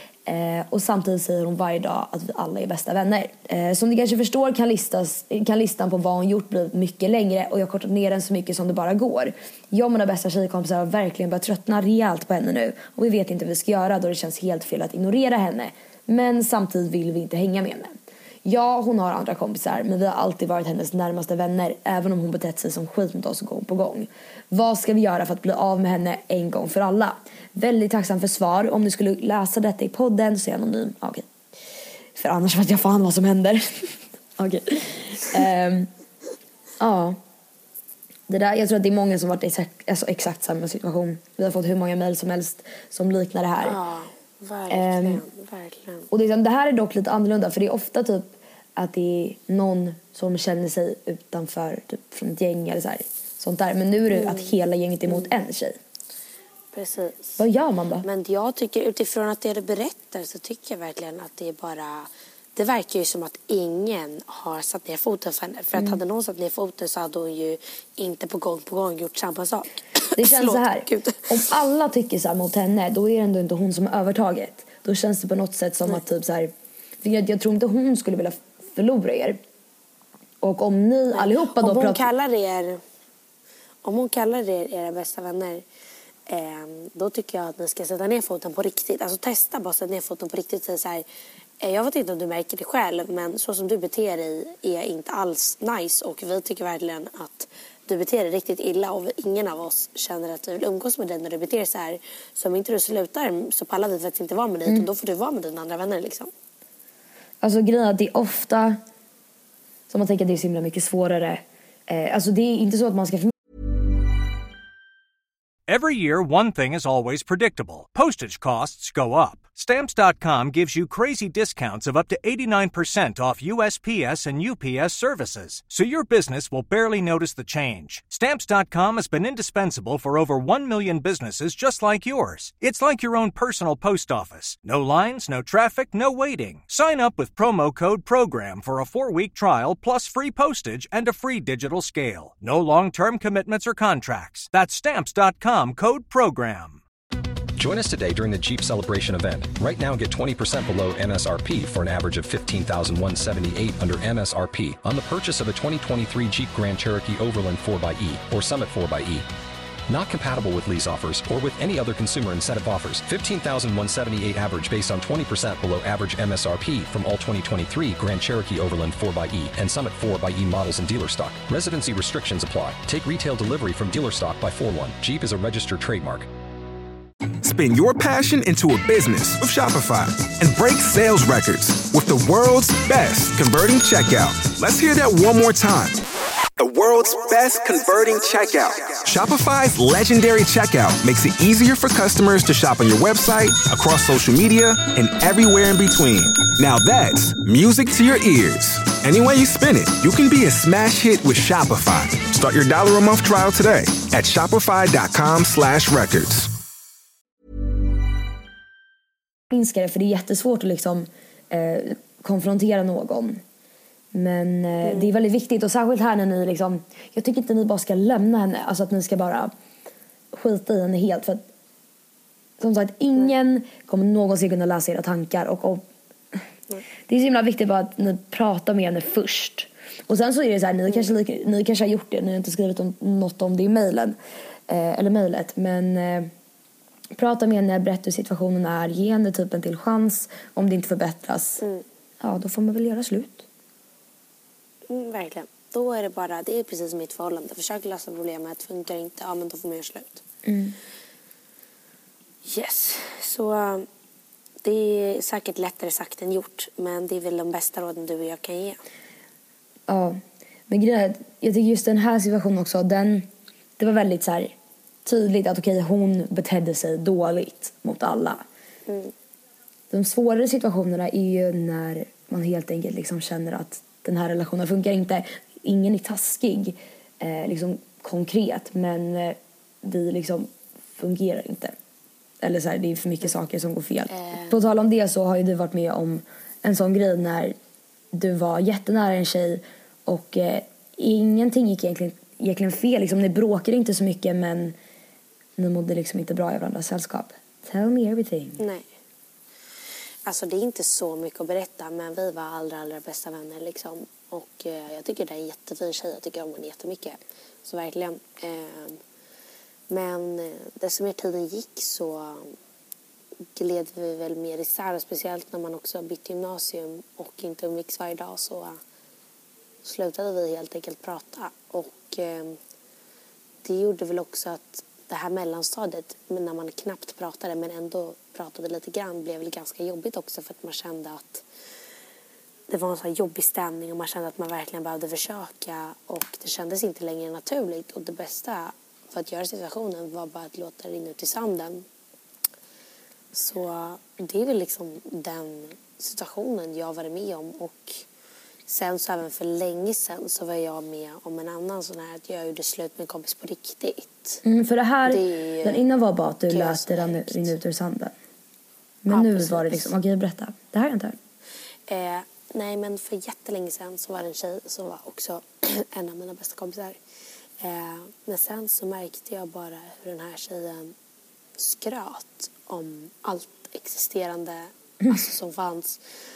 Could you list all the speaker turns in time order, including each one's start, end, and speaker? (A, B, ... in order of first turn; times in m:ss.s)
0:00.2-0:31.3 A
0:32.1-0:35.9 A
0:36.8-0:37.2 A
0:38.3-0:43.8 A
0:43.6-0:46.1 B
0:44.7-0:45.2 A
0:46.1-0:55.8 A
0:54.1-0:54.5 B
0:56.7-0:57.4 B
0:57.4-0:58.0 A
0:58.0-1:11.4 B
1:10.2-1:19.4 A
1:20.4-1:22.1 A
1:21.1-1:22.8 B
1:23.8-1:25.6 B
1:26.3-1:31.0 B
1:31.6-1:46.3 B
1:47.4-1:48.8 A
1:49.9-1:53.3 A
1:55.7-2:26.8 C
2:27.6-2:39.3 D
2:39.9-2:56.3 D
2:57.4-3:06.0 E
3:06.6-3:26.5 E
3:29.5-3:33.4 A
3:34.1-3:39.5 A
3:34.8-3:35.1 B
3:40.3-3:41.5 A
3:42.6-3:46.4 A
3:47.1-3:54.2 A
3:54.7-3:56.3 A
3:57.1-4:01.6 A
4:02.2-4:03.4 A
4:04.9-4:10.2 B
4:10.4-4:10.8 A
4:12.4-4:13.9 B
4:14.6-4:18.8 B
4:19.9-4:28.4 A
4:28.9-4:29.1 B
4:29.9-4:41.7 A
4:42.4-4:47.6 A
4:44.1-4:44.6 B
4:48.1-4:54.8 A
4:55.6-4:58.6 A
4:58.6-4:58.9 B
5:00.2-5:09.0 B
5:09.9-5:12.6 B
5:13.6-5:18.8 B
5:19.8-5:22.6 B
5:23.6-5:31.4 B
5:32.7-5:41.9 B
5:43.3-5:48.0 B
5:48.7-5:54.4 B
5:54.4-5:58.1 A
5:55.0-5:55.9 B
5:56.5-5:57.6 B
5:59.0-6:01.2 A
5:59.1-5:59.9 B
6:01.9-6:07.0 B
6:07.6-6:10.9 B
6:11.6-6:16.0 B